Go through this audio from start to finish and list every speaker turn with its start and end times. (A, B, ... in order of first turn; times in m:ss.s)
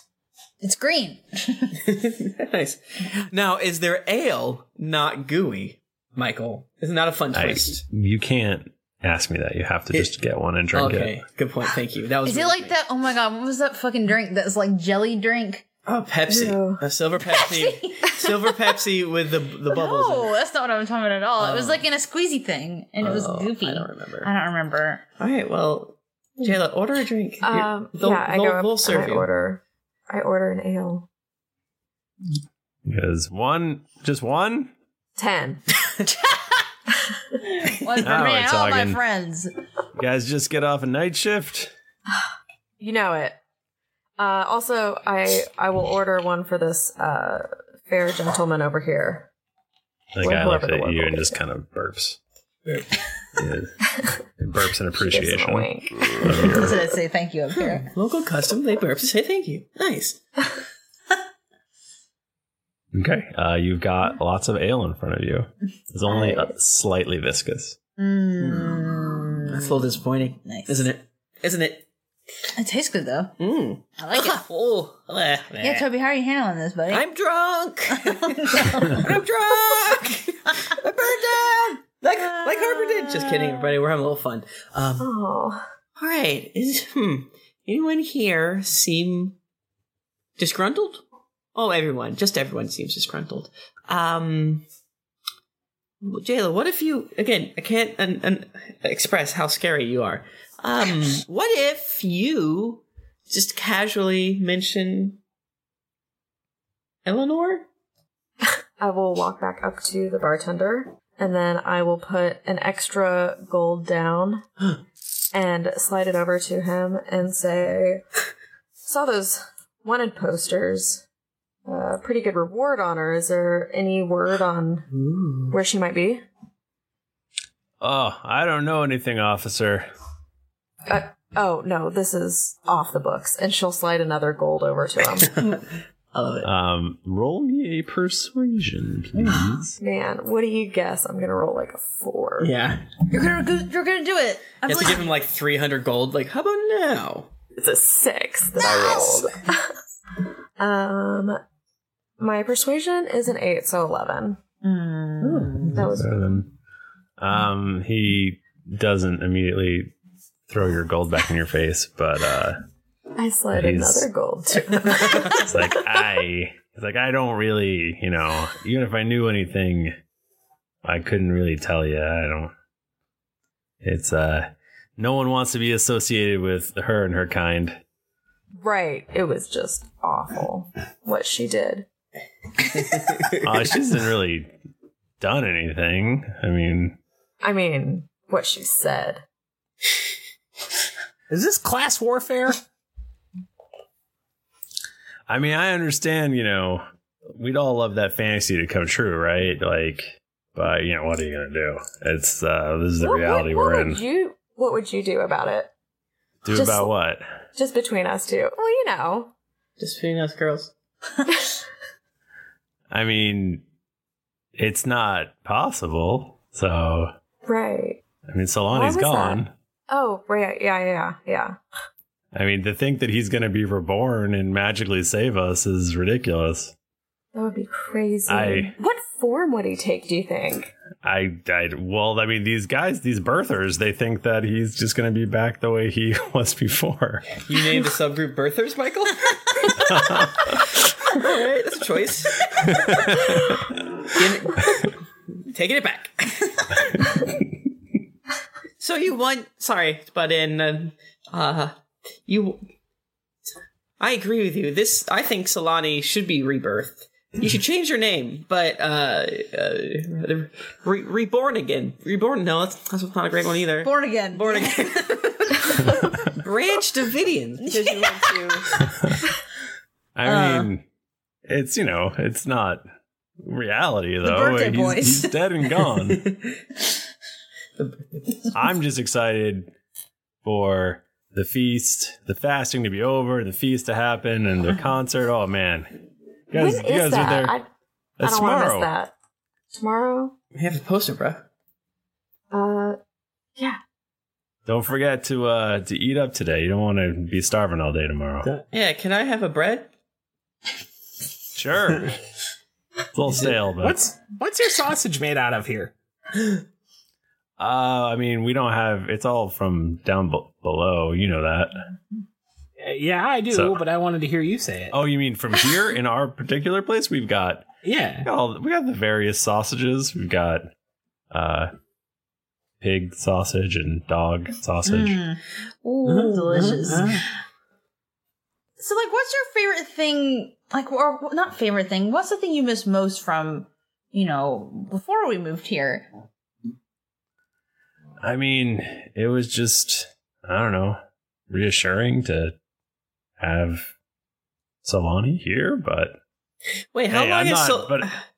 0:00.6-0:01.7 A
0:01.8-0:07.8 B
0:07.3-0:11.2 C
0:10.7-0:12.8 B
0:12.2-0:15.6 A
0:15.8-0:20.3 B
0:16.3-0:16.8 D
0:17.3-0:18.2 A
0:19.7-0:25.0 A
0:21.4-0:21.8 B
0:23.0-0:24.3 B
0:25.2-0:29.3 B
0:27.4-0:31.1 D
0:32.8-0:34.7 C
0:35.2-0:35.6 D
0:37.6-0:39.5 A
0:38.0-0:39.0 C
0:40.0-0:41.7 C
0:42.8-0:43.4 D
0:44.2-0:49.3 D
0:50.1-0:52.2 C
0:50.2-0:51.4 D
0:53.4-0:53.8 C
0:54.4-0:56.7 C
0:54.9-0:56.8 D
0:56.4-0:57.9 A
0:57.9-1:00.2 B
1:02.9-1:07.8 C
1:08.0-1:09.7 A
1:08.4-1:08.9 B
1:09.5-1:11.8 B
1:10.4-1:10.9 A
1:12.6-1:13.3 A
1:13.4-1:15.9 B
1:14.0-1:14.4 A
1:15.6-1:17.0 A
1:16.9-1:25.1 B
1:18.0-1:19.2 A
1:22.1-1:23.2 A
1:25.0-1:25.6 D
1:26.0-1:29.4 B
1:30.4-1:31.0 B
1:31.5-1:34.6 B
1:36.0-1:45.2 B
1:47.0-1:47.6 B
1:48.8-1:54.4 D
1:55.3-1:58.0 D
1:58.8-2:01.0 D
2:01.7-2:04.8 D
2:04.9-2:05.5 B
2:05.5-2:06.2 D
2:07.8-2:09.9 C
2:10.9-2:15.5 D
2:16.1-2:16.5 B
2:16.4-2:19.7 C
2:19.2-2:19.5 B
2:19.8-2:22.5 D
2:22.4-2:22.8 B
2:23.1-2:25.1 A
2:24.6-2:27.3 B
2:27.6-2:29.7 D
2:28.6-2:29.2 A
2:30.6-2:31.4 D
2:32.2-2:34.4 D
2:34.6-2:35.7 A
2:35.2-2:35.8 B
2:35.7-2:36.3 D
2:35.8-2:36.5 C
2:37.2-2:39.9 C
2:40.5-2:42.6 C
2:43.1-2:45.7 D
2:43.5-2:44.1 C
2:45.3-2:50.0 C
2:50.8-2:52.5 C
2:53.8-2:57.8 C
2:58.6-3:01.8 D
3:03.4-3:04.5 C
3:05.2-3:07.0 C
3:07.4-3:09.2 D
3:11.3-3:12.6 E
3:15.3-3:24.0 C
3:23.0-3:25.7 D
3:26.4-3:27.3 C
3:26.5-3:26.9 D
3:27.5-3:29.3 D
3:29.8-3:30.7 B
3:32.9-3:33.6 C
3:34.6-3:37.1 C
3:37.4-3:38.0 D
3:38.3-3:39.5 C
3:38.7-3:41.6 D
3:42.3-3:46.7 C
3:47.3-3:50.7 D
3:48.3-3:48.7 C
3:51.0-3:57.4 C
3:57.4-3:59.7 B
3:59.8-4:00.6 C
4:01.1-4:02.5 B
4:02.6-4:03.4 C
4:04.1-4:04.8 B
4:05.5-4:06.7 B
4:08.8-4:11.7 B
4:12.2-4:12.6 B
4:14.0-4:28.7 B
4:23.8-4:25.8 A
4:27.6-4:28.6 A
4:30.2-4:30.8 C
4:30.2-4:30.7 A
4:31.5-4:32.8 C
4:33.4-4:36.2 C
4:34.2-4:35.3 A
4:36.1-4:36.5 B
4:37.8-4:38.5 B
4:38.5-4:39.7 C
4:40.4-4:45.9 C
4:46.5-4:47.5 C
4:46.5-4:47.7 D
4:48.2-4:48.9 C
4:48.2-4:49.1 D
4:49.7-4:50.3 D
4:50.5-4:51.4 B
4:52.5-4:53.0 D
4:54.6-4:58.5 C
4:58.7-4:59.9 B
5:01.5-5:02.1 C
5:03.1-5:04.0 C
5:03.8-5:05.9 E
5:07.6-5:11.8 C
5:12.8-5:15.0 E
5:13.5-5:13.8 C
5:14.9-5:17.7 C
5:17.8-5:18.3 E
5:18.2-5:20.7 C
5:21.3-5:21.7 C
5:22.8-5:25.2 C
5:24.8-5:27.3 A
5:26.0-5:27.2 E
5:28.8-5:36.1 A
5:38.2-5:41.0 C
5:41.5-5:42.5 C
5:43.4-5:43.9 C
5:44.8-5:46.2 C
5:46.9-5:48.2 B
5:47.1-5:48.1 C